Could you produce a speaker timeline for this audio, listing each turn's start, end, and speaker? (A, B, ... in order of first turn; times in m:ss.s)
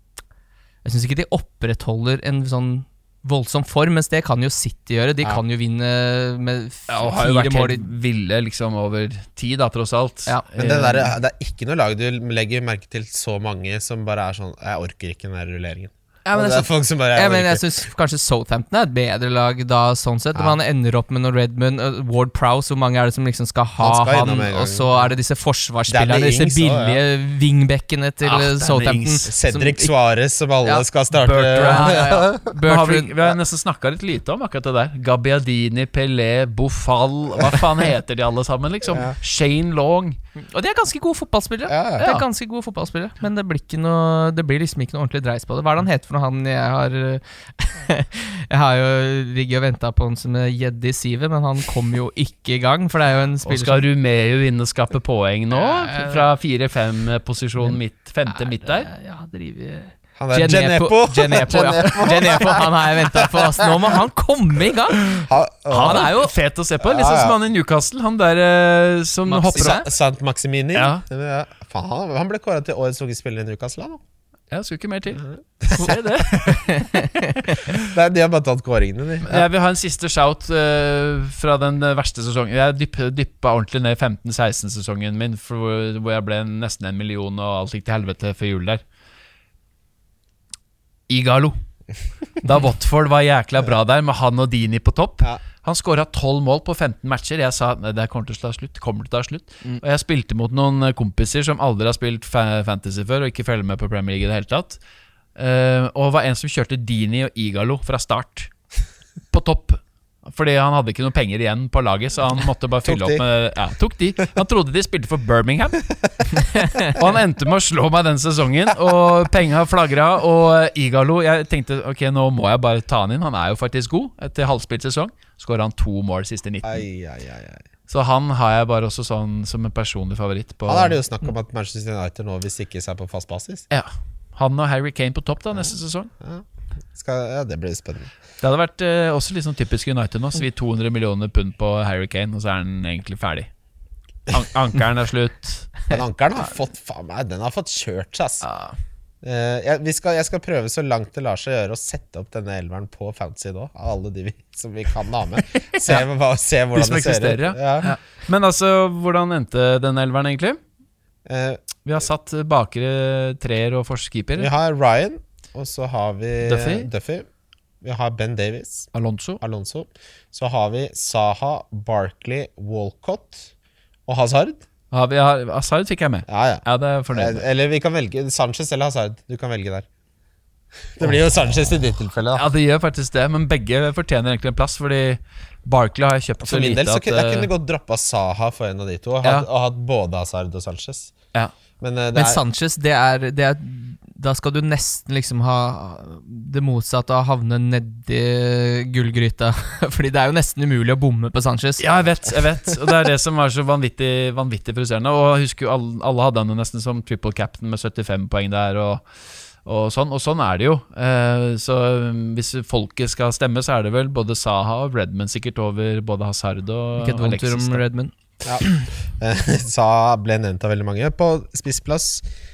0:00.8-0:07.9 A
0:06.9-0:11.0 B
0:10.3-0:11.1 A
0:10.6-0:17.6 C
0:16.2-0:29.9 A
0:23.8-0:25.1 C
0:25.9-0:27.0 C
0:28.2-0:29.3 B
0:29.3-0:32.5 C
0:31.1-0:32.0 B
0:31.5-0:33.1 A
0:32.7-0:40.2 B
0:40.5-0:53.8 A
0:41.7-0:42.0 C
0:42.0-0:42.2 B
0:53.4-0:58.9 B
0:55.5-0:56.3 A
0:57.6-1:05.2 A
1:00.2-1:03.4 C
1:05.1-1:06.1 C
1:05.1-1:09.8 B
1:05.8-1:06.3 A
1:06.8-1:07.4 C
1:09.3-1:09.9 A
1:09.5-1:14.0 C
1:10.7-1:11.0 B
1:14.5-1:16.6 B
1:15.6-1:16.3 C
1:15.8-1:17.6 A
1:17.7-1:19.4 C
1:19.2-1:28.8 B
1:31.1-1:31.6 B
1:32.4-1:44.8 B
1:45.4-1:48.5 B
1:49.3-1:55.9 B
1:52.8-1:53.2 C
1:56.6-1:56.9 A
1:56.8-2:06.8 B
2:06.6-2:07.6 C
2:07.9-2:11.0 B
2:10.7-2:13.6 C
2:13.7-2:16.1 B
2:15.5-2:18.1 C
2:18.4-2:23.5 B
2:24.3-2:25.9 B
2:25.9-2:28.4 C
2:28.4-2:28.7 B
2:29.2-2:37.9 C
2:35.8-2:36.0 B
2:36.7-2:40.6 B
2:41.2-2:41.6 C
2:41.8-2:44.5 B
2:44.4-2:47.3 C
2:46.4-2:46.9 B
2:47.8-2:48.9 C
2:48.9-2:49.4 B
2:49.4-2:53.5 C
2:54.1-2:54.6 C
2:54.9-2:57.4 B
2:56.3-2:59.8 C
3:01.0-3:02.4 C
3:02.3-3:07.5 B
3:06.4-3:11.1 C
3:09.2-3:09.5 B
3:11.8-3:12.4 C
3:12.1-3:21.8 A
3:21.8-3:29.1 B
3:29.6-3:37.8 B
3:36.9-3:38.8 A
3:39.2-3:42.2 C